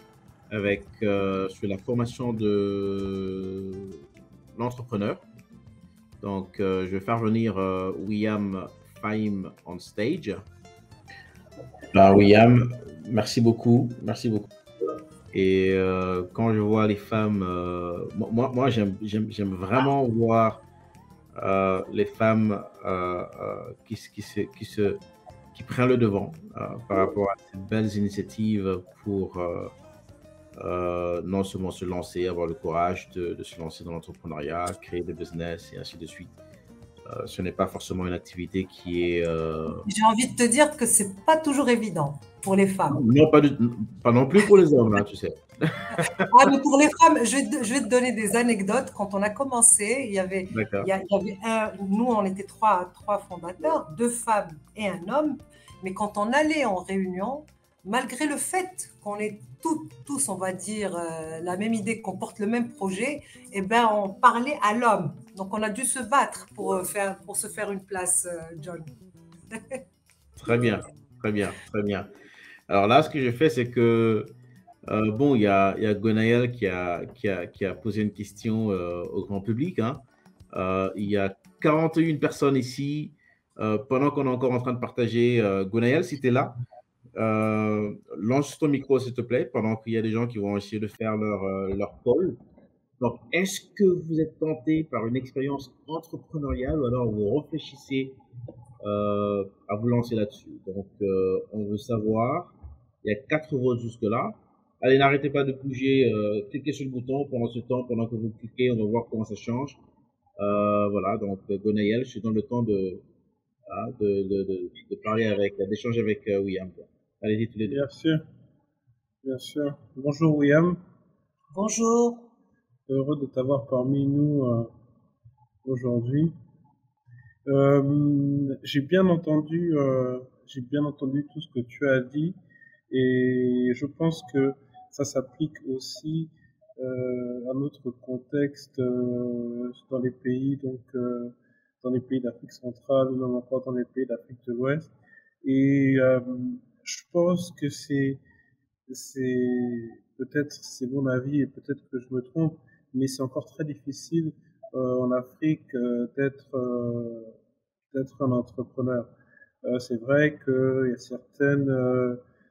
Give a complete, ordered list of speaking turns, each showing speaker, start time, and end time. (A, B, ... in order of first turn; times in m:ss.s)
0:00.5-0:04.0 A
0:04.6-0:05.2 A
0:06.2-0:10.4 A
0:11.9-0:14.5 A
0:15.3-0:20.6 A
0:21.4-0:25.0 A
0:25.6-0:29.7 A
0:30.6-0:36.4 A
0:37.1-0:39.9 A
0:39.8-0:43.0 B
0:42.9-0:46.3 A
0:46.3-1:08.9 B
0:50.5-0:50.9 A
1:09.5-1:09.8 B
1:10.4-1:12.1 A
1:12.7-1:14.4 A
1:14.9-1:26.6 A
1:27.2-1:32.4 A
1:33.0-1:38.2 A
1:38.8-1:49.8 A
1:50.4-1:53.0 A
1:53.7-1:57.8 A
1:57.7-1:58.2 C
1:59.2-2:00.8 C
2:01.5-2:02.2 B
2:02.9-2:04.7 C
2:05.6-2:06.3 C
2:07.5-2:12.4 C
2:12.9-2:24.9 C
2:25.4-2:28.2 C
2:28.9-2:37.3 C
2:37.9-2:39.1 C
2:39.6-2:42.2 C